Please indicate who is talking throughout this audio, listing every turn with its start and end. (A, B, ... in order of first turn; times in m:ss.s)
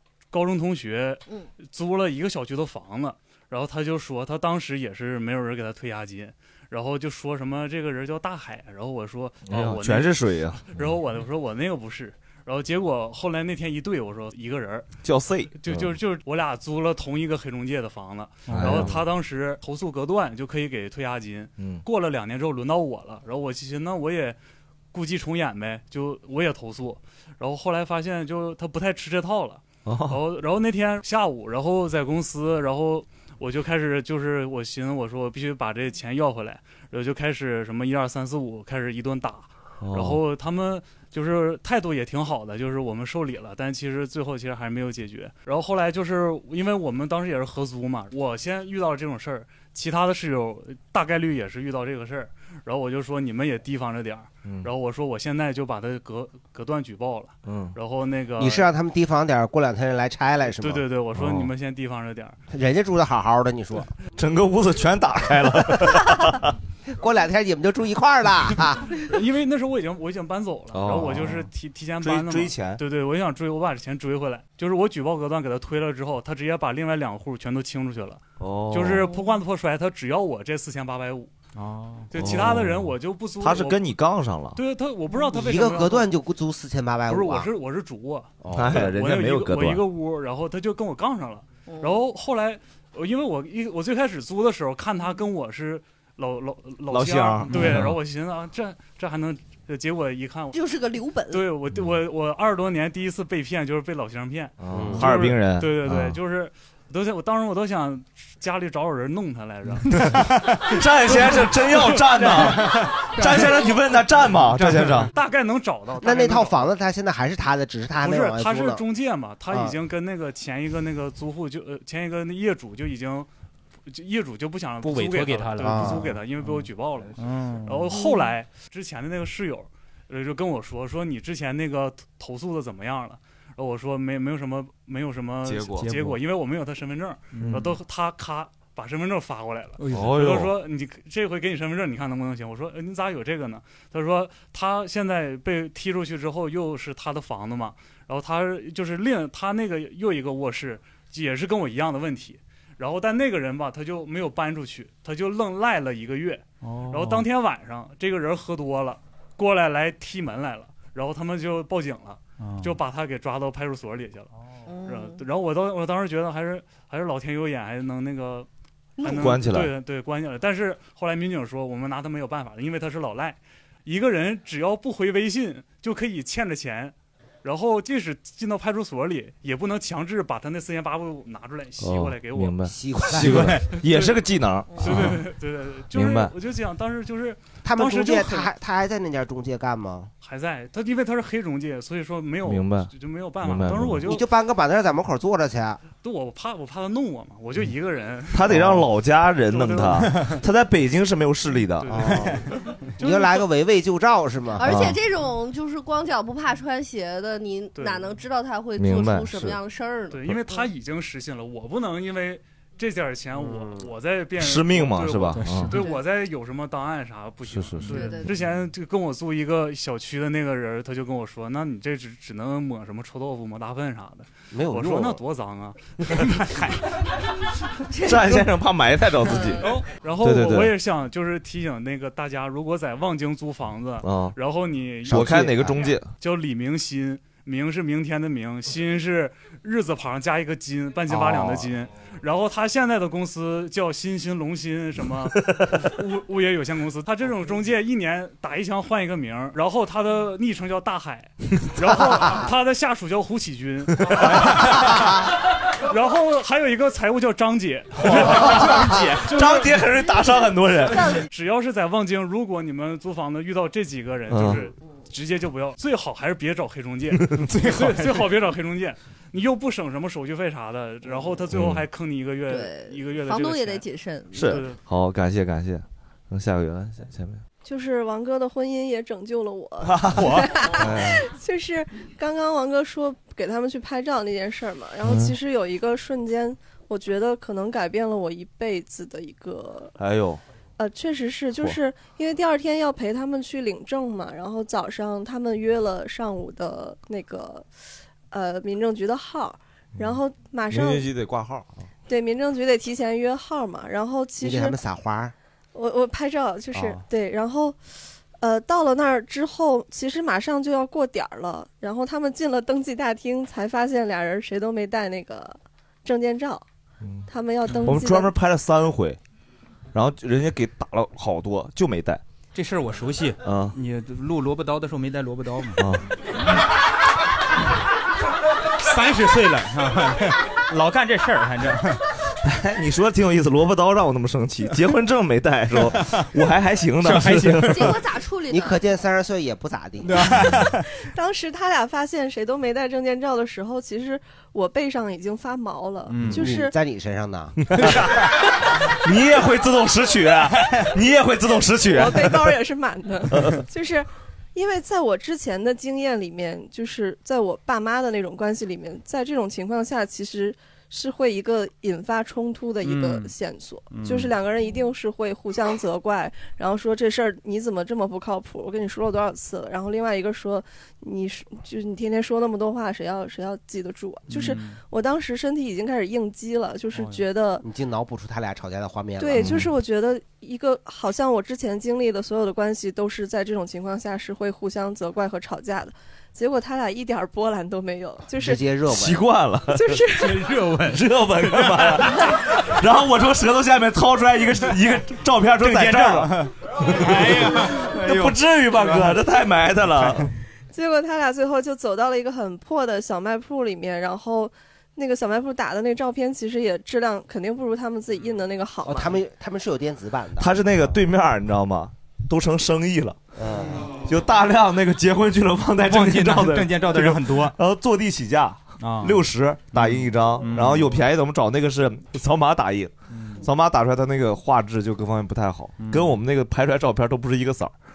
0:00.3-0:10.1 A
0:09.4-0:11.0 B
0:10.6-0:14.9 A
0:15.0-0:16.0 B
0:15.6-0:24.4 A
0:18.5-0:19.0 B
0:21.6-0:21.8 B
0:24.9-0:58.7 A
0:29.8-0:30.2 B
0:39.8-0:40.2 B
0:54.4-0:54.7 B
0:57.4-0:57.8 B
0:58.4-1:00.8 C
1:00.6-1:02.4 A
1:01.1-1:01.5 B
1:02.5-1:03.9 C
1:04.1-1:06.5 B
1:07.0-1:08.9 C
1:09.1-1:21.3 A
1:10.7-1:11.5 B
1:12.0-1:12.8 B
1:18.4-1:19.1 B
1:21.6-1:22.1 D
1:22.1-1:23.8 A
1:22.1-1:24.6 B
1:24.6-1:26.1 A
1:25.3-1:27.5 C
1:27.1-1:40.6 A
1:28.4-1:28.9 C
1:28.5-1:29.8 B
1:31.7-1:32.0 E
1:36.9-1:38.0 B
1:40.5-1:41.4 E
1:41.3-1:49.9 A
1:44.6-1:46.2 B
1:44.7-1:45.0 C
1:50.7-1:55.1 B
1:51.1-1:52.4 A
1:54.6-1:54.9 D
1:55.1-1:56.7 A
1:56.0-1:58.8 C
1:58.0-2:03.3 A
1:59.5-1:59.7 C
2:03.9-2:44.3 A
2:04.8-2:06.1 D
2:05.6-2:06.2 C
2:07.2-2:07.9 D
2:15.4-2:16.1 B
2:19.9-2:20.5 B
2:36.6-2:37.2 D
2:42.4-2:42.7 D
2:44.7-2:45.2 E
2:44.8-2:48.5 A
2:49.0-2:49.7 B
2:49.0-3:04.2 A
3:01.8-3:05.2 B
3:02.6-3:03.6 C
3:04.8-3:08.5 A
3:04.8-3:05.1 C
3:05.9-3:06.3 B
3:07.6-3:10.1 C
3:10.2-3:14.2 A
3:12.4-3:14.2 B
3:14.0-3:15.8 C
3:16.0-3:18.6 A
3:18.3-3:22.3 B
3:19.5-3:20.3 A
3:21.8-3:23.5 A
3:21.9-3:22.3 C
3:23.0-3:24.9 C
3:24.6-3:30.6 E
3:24.6-3:25.0 B
3:27.7-3:28.1 A
3:28.8-3:29.6 B
3:30.1-3:46.2 A
3:33.4-3:33.9 C
3:34.4-3:35.7 B
3:37.4-3:38.2 B
3:37.9-3:38.3 E
3:44.5-3:45.2 C
3:48.0-3:50.7 B
3:49.3-3:49.6 E
3:49.6-3:55.3 A
3:54.0-3:54.4 B
3:55.0-3:56.1 B
3:55.0-3:55.9 C
3:56.2-4:15.1 A
4:01.1-4:01.7 B
4:05.5-4:05.8 B
4:15.9-4:19.8 A
4:18.0-4:19.2 D
4:18.1-4:18.8 B
4:19.3-4:21.2 B
4:21.3-4:33.8 A
4:24.3-4:24.7 B
4:27.2-4:27.5 B
4:27.6-4:28.0 D
4:31.5-4:31.8 B
4:32.5-4:34.6 E
4:34.3-4:37.4 B
4:34.4-4:34.8 A
4:37.6-4:49.9 F
4:39.8-4:41.2 B
4:45.0-4:45.4 B
4:50.0-4:50.4 B
4:50.8-4:57.7 F
4:58.3-5:01.1 F
5:00.7-5:01.8 B
5:02.1-5:04.8 F
5:04.4-5:05.3 C
5:05.7-5:07.8 F
5:06.7-5:07.0 C
5:08.4-5:16.6 F
5:17.0-5:19.2 B
5:17.3-5:18.3 F
5:19.9-5:22.2 B
5:22.5-5:25.8 D
5:23.4-5:23.8 B
5:25.8-5:26.0 B
5:28.8-5:32.0 D
5:32.4-5:38.0 B
5:37.0-5:37.7 D
5:37.7-5:38.8 E
5:38.5-5:40.3 C
5:41.1-5:46.7 F
5:46.3-5:47.6 C
5:47.7-5:48.2 B
5:49.0-5:52.6 B
5:51.9-6:17.6 F
5:53.3-5:53.6 B
6:02.8-6:03.2 D
6:17.6-6:19.6 C
6:19.2-6:28.7 F
6:19.4-6:19.7 B
6:28.4-6:29.2 C
6:28.9-6:30.0 B
6:29.7-6:30.4 F
6:30.2-6:32.0 D
6:30.8-6:40.3 B
6:35.6-6:39.1 D
6:40.7-6:49.2 F
6:48.8-6:51.0 C
6:50.4-6:53.2 B
6:53.4-6:53.9 C
6:53.8-7:07.7 B
6:55.9-6:57.5 D
6:58.8-6:59.2 D
6:59.7-7:00.9 D
7:03.1-7:03.4 D
7:05.8-7:06.0 D